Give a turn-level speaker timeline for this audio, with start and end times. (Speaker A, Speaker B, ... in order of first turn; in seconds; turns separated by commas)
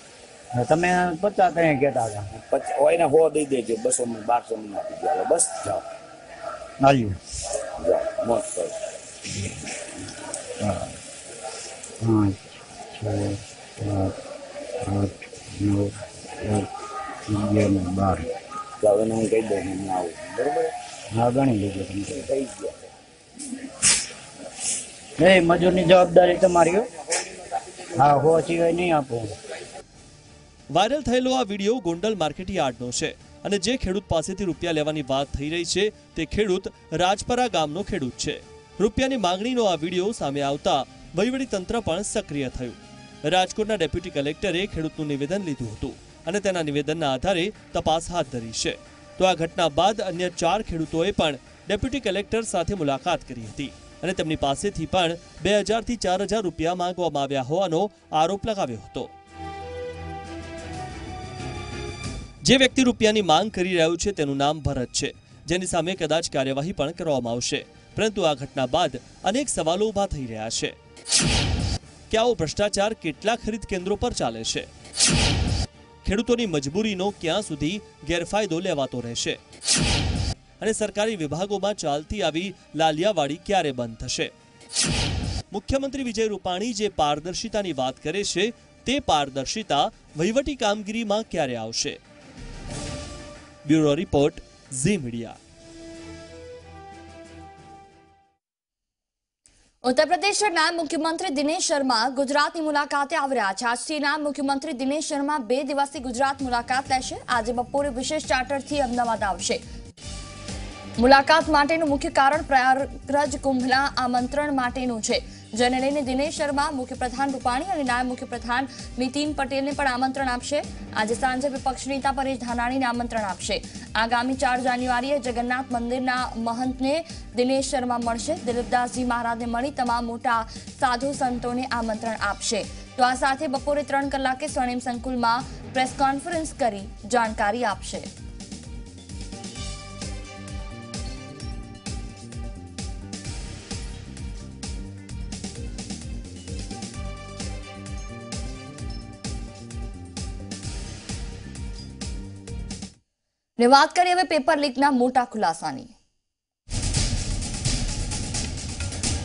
Speaker A: 0.5-2.3, Speaker B: 2.3-5.8, Speaker A: 6.8-7.2, Speaker B: 7.8-8.7, Speaker A: 10.6-10.9, Speaker A: 12.0-12.4, Speaker A: 12.9-14.1, Speaker A: 14.8-15.9, Speaker A: 16.4-16.7, Speaker A: 17.3-18.3, Speaker B: 18.8-20.7, Speaker A: 21.1-22.2, Speaker B: 22.2-22.9, Speaker A: 25.2-26.9, Speaker A: 27.9-29.3, Speaker C: 30.7-59.1, Speaker C: 62.4-70.7, Speaker C: 72.1-74.7, Speaker C: 76.0-79.4, Speaker C: 80.6-84.3, Speaker C: 85.5-92.0, Speaker C: 93.7-95.4, Speaker D: 99.8-109.6, Speaker D: 111.0-138.1, Speaker D: 153.6-155.9